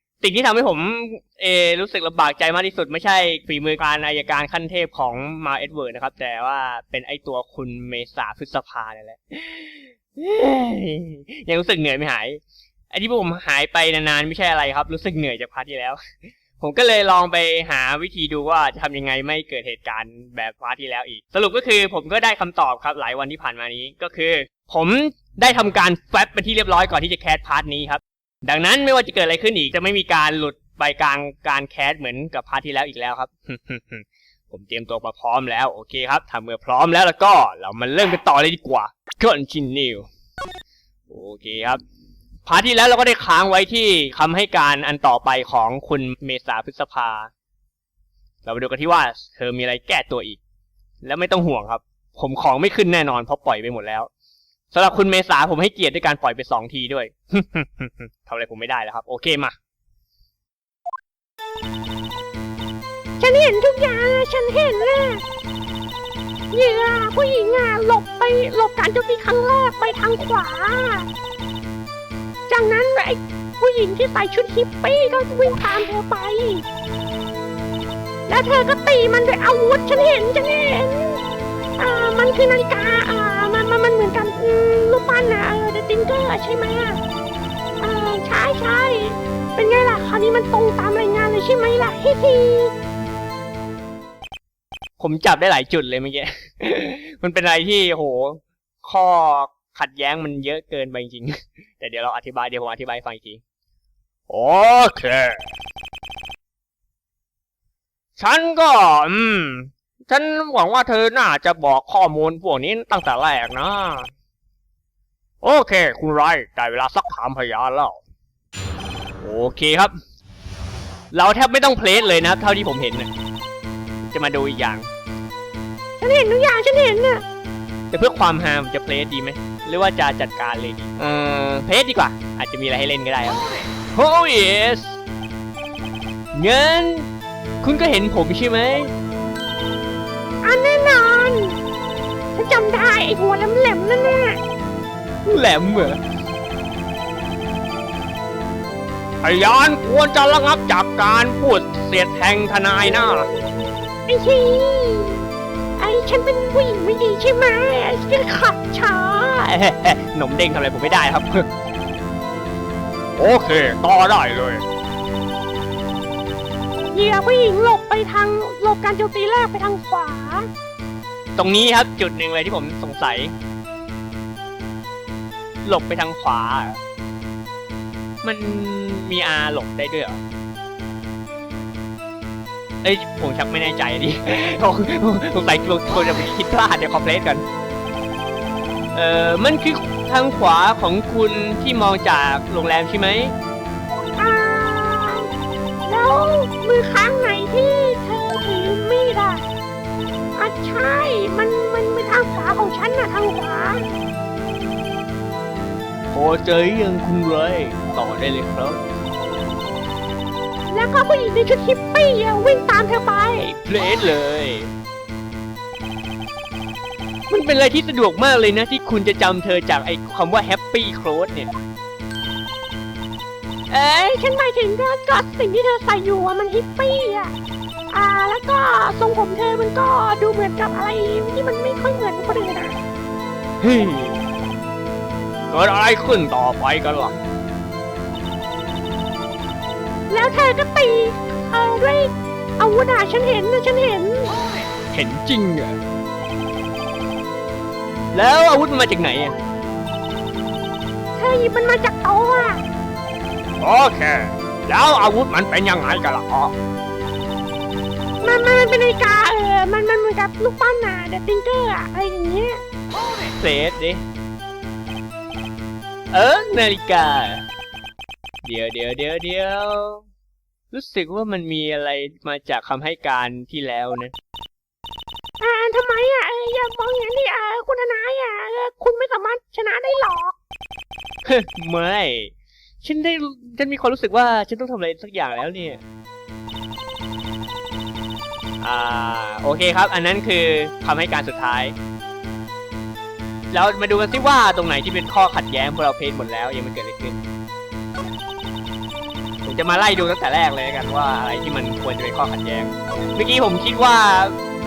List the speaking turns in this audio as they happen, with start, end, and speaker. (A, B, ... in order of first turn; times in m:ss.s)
0:00.2-0:12.4 A
0:12.9-0:16.0 A
0:16.6-0:40.1 A
0:41.1-0:41.8 A
0:42.4-0:47.3 A
0:48.4-0:50.4 A
0:51.0-0:54.1 A
0:54.7-0:59.5 A
1:03.2-1:05.2 B
1:06.5-1:11.1 B
1:12.5-1:16.6 B
1:18.3-1:21.2 B
1:21.8-1:27.0 B
1:27.8-1:32.7 B
1:35.0-1:43.4 A
1:44.3-1:45.4 A
1:48.2-1:54.1 A
1:55.4-1:58.0 A
1:59.2-1:59.9 A
2:01.1-2:03.1 A
2:04.0-2:04.9 A
2:06.0-2:07.2 B
2:07.9-2:15.0 A
2:16.3-2:17.1 A
2:17.6-2:18.9 A
2:20.4-2:21.6 B
2:22.3-2:24.4 B
2:25.2-2:26.0 A
2:29.2-2:33.3 A
2:34.1-2:35.2 B
2:35.8-2:39.4 B
2:39.3-2:41.5 A
2:43.2-2:44.6 A
2:46.9-2:50.5 B
2:51.4-2:53.3 A
2:55.6-2:56.8 A
2:58.2-3:00.2 A
3:02.8-3:07.4 A
3:08.9-3:13.3 A
3:14.2-3:15.3 B
3:15.8-3:19.4 B
3:20.4-3:23.8 B
3:26.1-3:28.8 A
3:30.7-3:33.4 B
3:33.4-3:34.7 A
3:37.3-3:41.5 A
3:43.7-3:47.3 B
3:47.9-3:52.8 B
3:53.6-3:54.2 A
3:55.5-3:57.1 A
4:00.1-4:04.3 B
4:04.9-4:05.8 A
4:08.1-4:09.3 A
4:11.2-4:12.6 B
4:13.6-4:16.5 A
4:18.2-4:22.6 B
4:23.4-4:24.0 A
4:26.1-4:27.4 A
4:28.4-4:30.0 A
4:30.7-4:34.1 A
4:35.4-4:40.4 B
4:41.2-4:45.8 A
4:48.6-4:51.7 A
4:53.5-4:57.2 A
4:59.4-5:04.3 A